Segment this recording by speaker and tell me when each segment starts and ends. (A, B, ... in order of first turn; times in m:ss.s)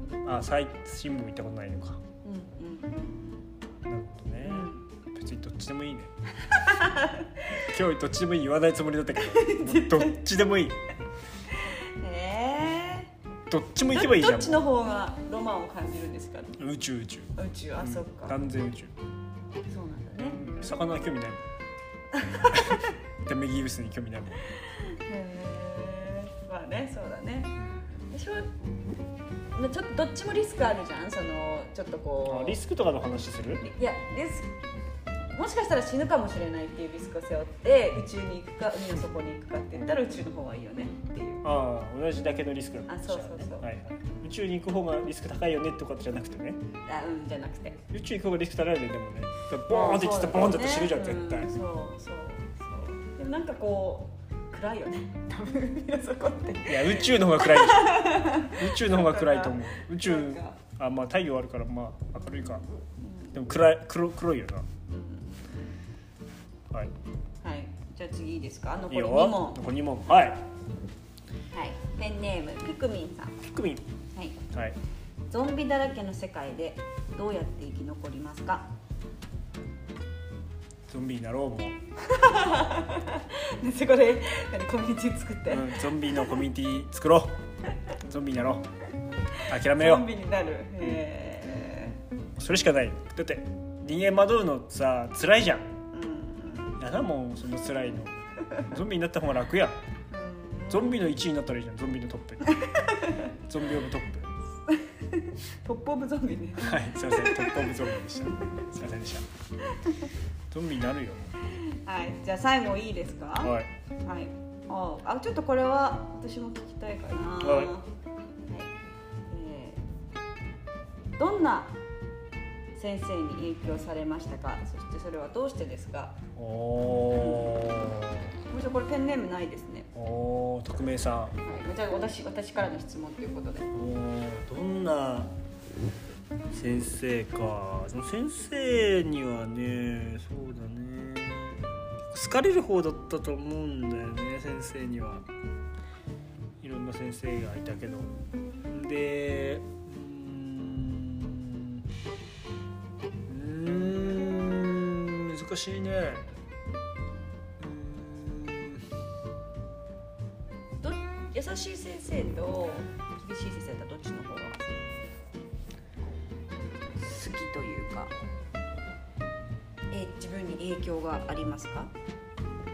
0:00.2-0:02.0 A
0:02.2-0:03.4 B
0:03.8-0:06.1 A
0:04.4-0:04.8 B
0:06.5-0:07.3 B
0:07.6-0:10.8 A
0:09.3-0:10.2 B
0:11.5-0:13.1 B
0:13.5-0:14.6 A
0:13.9-0:16.6 B
0:16.6-0:18.9 A
0:17.4-0:18.4 B
0:19.7-0:20.4 B
0:20.2-0:21.4 A
0:22.1-0:22.9 B
0:22.5-0:24.4 A
0:24.6-0:27.6 B
0:28.1-0:28.5 B
0:29.5-0:32.6 B
0:32.2-0:33.6 A
0:33.6-0:34.5 B
0:35.3-0:41.4 B
0:41.4-0:46.6 A
0:42.9-0:43.7 B
0:46.8-0:47.8 B
0:47.9-0:51.5 A
0:49.7-1:00.6 B
0:56.6-1:02.6 A
1:03.0-1:03.4 B
1:03.3-1:04.7 A
1:04.9-1:05.8 B
1:07.4-1:09.6 B
1:08.9-1:10.5 A
1:11.5-1:13.4 B
1:13.4-1:13.8 A
1:15.3-1:18.7 B
1:20.9-1:21.8 A
1:22.1-1:25.8 B
1:25.5-1:27.4 A
1:28.0-1:28.6 A
1:29.5-1:30.1 A
1:29.6-1:32.0 B
1:32.4-1:35.8 A
1:35.9-1:36.8 B
1:36.8-1:38.1 A
1:38.7-1:39.8 A
1:40.1-1:41.0 B
1:40.7-1:42.7 A
1:42.5-1:43.3 B
1:43.3-1:44.3 A
1:44.7-1:47.8 B
1:46.6-1:49.3 A
1:50.5-1:51.4 A
1:51.6-1:57.9 B
1:53.4-1:53.7 A
1:57.4-1:57.7 A
1:59.3-1:59.8 B
2:01.2-2:01.8 B
2:02.7-2:06.2 B
2:06.4-2:08.3 A
2:06.9-2:07.6 B
2:08.5-2:09.9 B
2:09.9-2:11.4 A
2:11.4-2:13.7 B
2:13.7-2:15.3 A
2:16.5-2:25.3 A
2:26.6-2:28.1 A
2:28.7-2:31.8 A
2:33.3-2:36.3 A
2:37.6-2:38.9 A
2:40.8-2:44.6 B
2:46.9-2:48.1 B
2:49.9-2:51.9 B